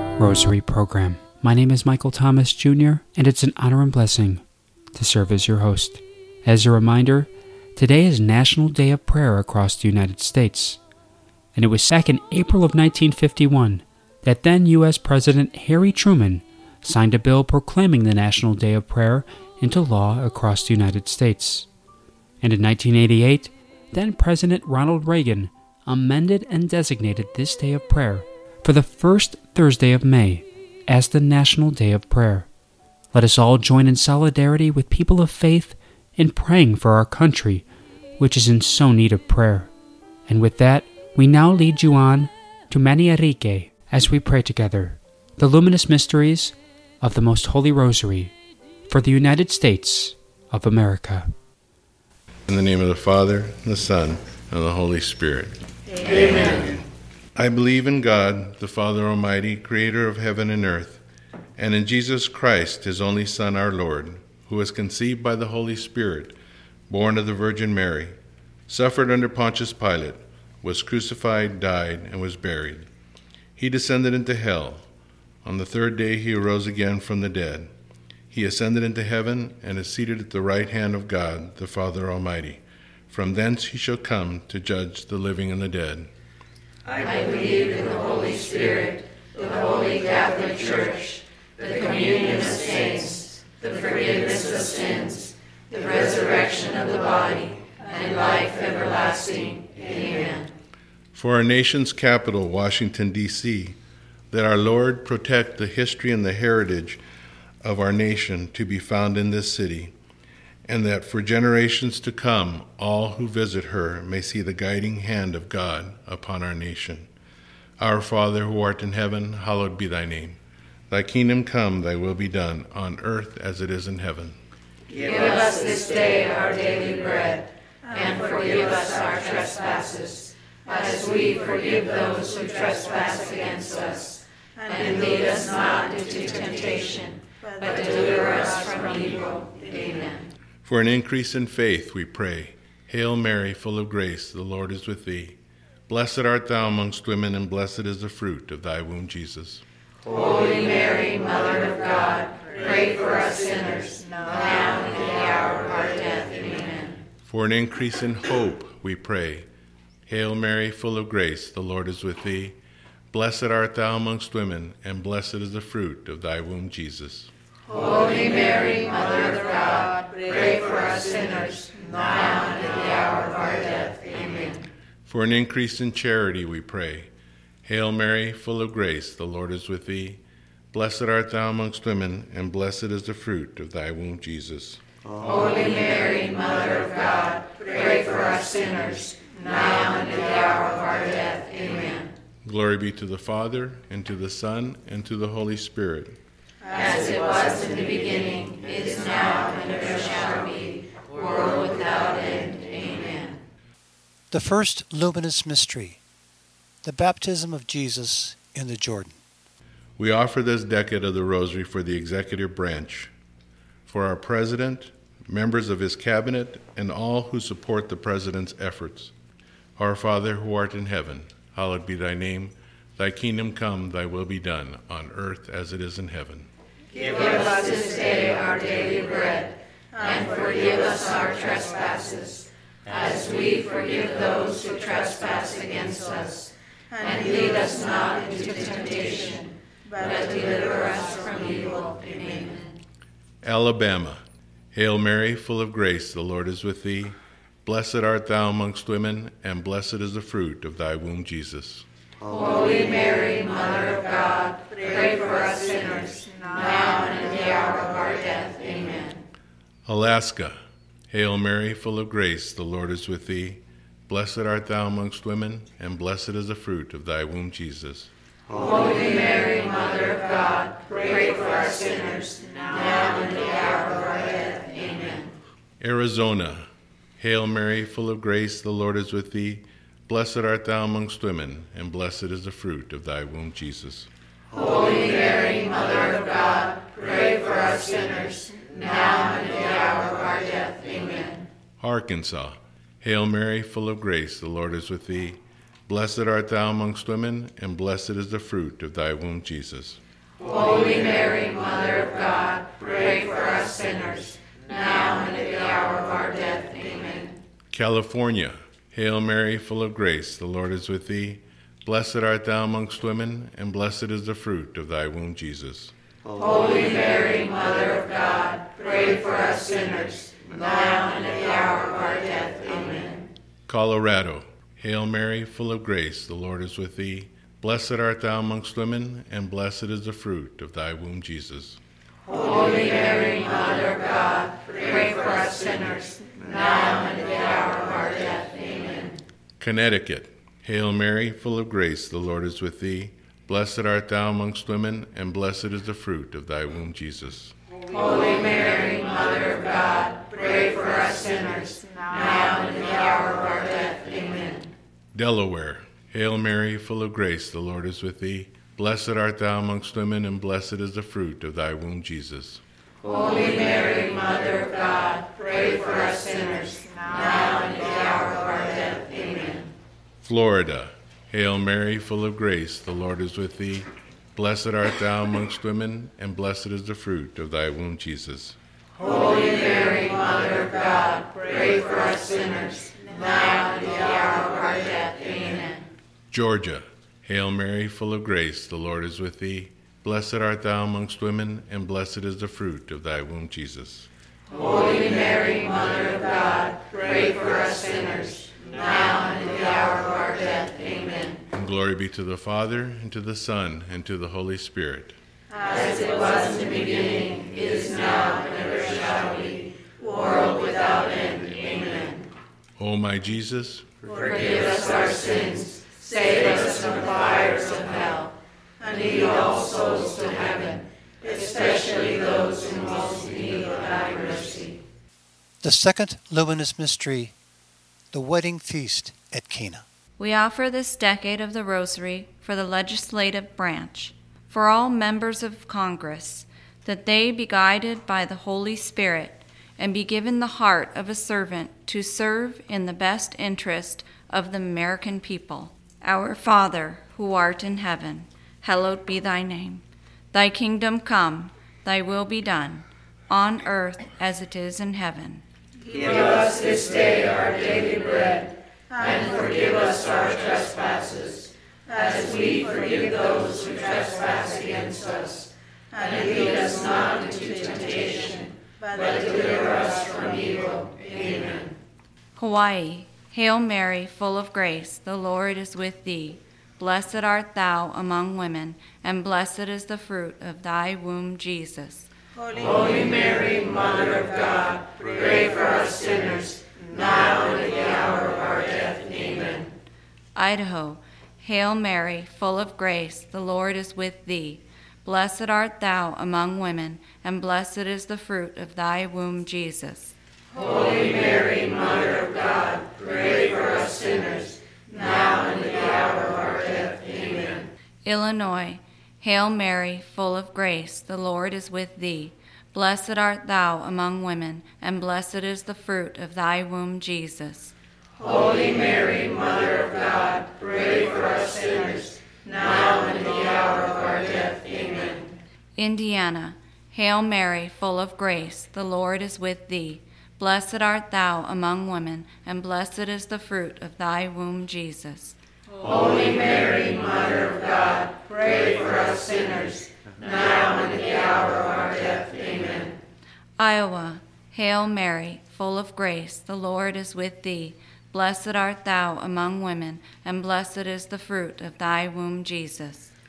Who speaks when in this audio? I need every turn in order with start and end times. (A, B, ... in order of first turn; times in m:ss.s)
0:00.1-0:10.8 A
0:11.5-0:21.7 A
0:22.4-0:32.5 A
0:33.1-0:37.6 A
0:38.2-0:39.7 A
0:40.3-0:48.3 A
0:48.9-0:51.3 A
0:52.5-0:56.8 B
0:56.2-0:56.5 C
0:57.4-1:01.0 B
1:01.6-1:06.4 B
1:06.9-1:08.1 B
1:08.7-1:12.9 B
1:13.6-1:14.8 B
1:15.4-1:17.7 B
1:18.3-1:26.1 B
1:27.0-1:40.5 C
1:41.1-1:43.8 B
1:44.3-1:47.0 B
1:47.6-1:49.9 B
1:50.6-1:57.1 B
1:57.8-2:00.4 B
2:00.9-2:04.4 B
2:04.9-2:20.2 C
2:20.6-2:29.6 B
2:30.0-2:37.0 C
2:37.2-2:39.5 B
2:40.0-2:42.6 B
2:43.1-2:47.3 B
2:47.7-2:54.6 C
2:55.0-2:57.1 B
2:57.6-3:00.2 B
3:00.7-3:04.8 B
3:05.2-3:12.1 C
3:12.4-3:16.2 B
3:16.7-3:23.4 C
3:24.3-3:26.0 D
3:26.8-3:29.2 D
3:30.0-3:33.1 B
3:33.9-3:39.1 B
3:39.8-3:46.5 B
3:47.0-4:02.8 C
4:03.4-4:04.2 B
4:04.7-4:11.8 B
4:12.2-4:19.2 C
4:19.8-4:20.6 B
4:21.1-4:28.1 B
4:28.5-4:35.3 C
4:35.8-4:44.1 B
4:44.5-4:51.4 C
4:51.8-5:00.0 B
5:00.4-5:07.4 C
5:07.7-5:15.9 B
5:16.3-5:23.3 C
5:23.7-5:31.8 B
5:32.3-5:39.2 C
5:39.6-5:47.5 B
5:47.9-5:54.7 C
5:55.1-6:02.6 B
6:03.0-6:09.7 C
6:10.2-6:18.6 B
6:19.0-6:25.8 C
6:26.3-6:34.1 B
6:34.5-6:41.4 C
6:41.5-6:45.2 B
6:45.6-6:52.3 C
6:52.8-6:53.9 B
6:54.1-7:04.8 C
7:05.6-7:07.3 D
7:08.1-7:09.8 D
7:10.2-7:35.4 E
7:35.9-7:51.7 C
7:52.4-8:02.1 E
8:02.5-8:09.7 C
8:10.3-8:20.1 E
8:20.5-8:27.7 C
8:28.0-8:37.7 E
8:38.2-8:45.3 C
8:45.8-8:55.4 E
8:55.8-9:03.0 C
9:03.6-9:13.1 E